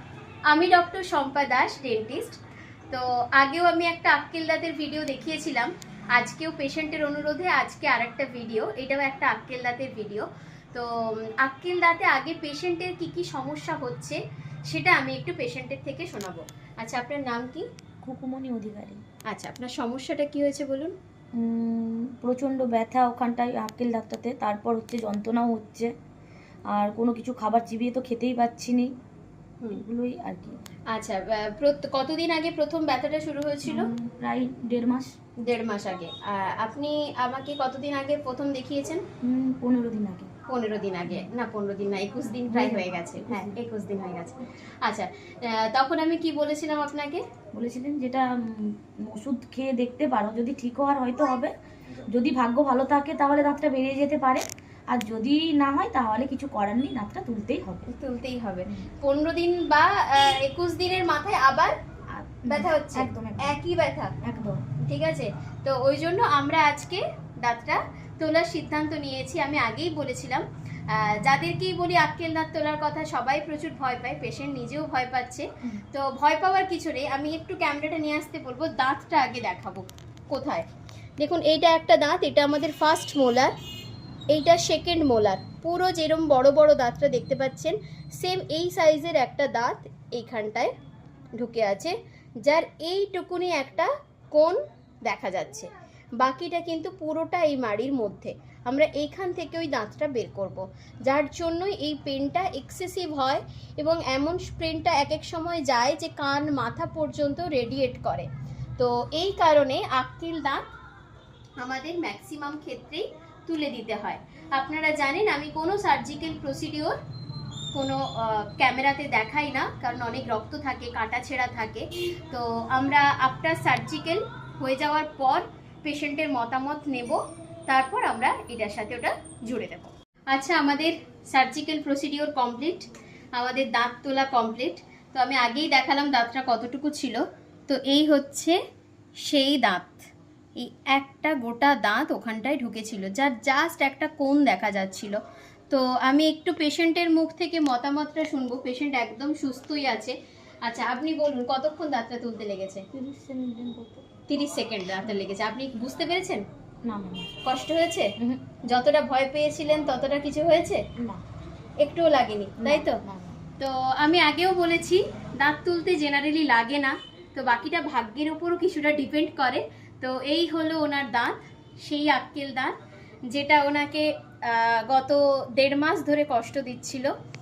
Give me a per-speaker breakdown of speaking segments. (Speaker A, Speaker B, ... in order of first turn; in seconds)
Speaker A: 0.5-2.4, 2.9-17.6, 19.3-20.9, 30.9-33.9, 35.4-39.0, 40.5-47.2, 57.9-61.8, 62.5-64.1, 64.9-80.7, 81.2-83.5, 84.3-90.7, 91.4-95.7, 96.2-110.6, 111.6-117.0, 117.8-138.6, 139.2-145.2, 145.7-152.8, 154.3-156.4, 157.4-158.1, 158.7-160.8, 161.8-163.0, 163.6-172.8, 173.3-177.1
Speaker B: 18.0-19.0, 21.4-25.9, 26.7-28.9, 29.7-30.6, 33.6-35.1, 39.2-40.3, 42.5-43.6, 47.5-51.5, 52.1-57.9, 62.2-63.6, 64.2-64.6, 152.9-154.1, 156.9-157.3, 162.6-163.4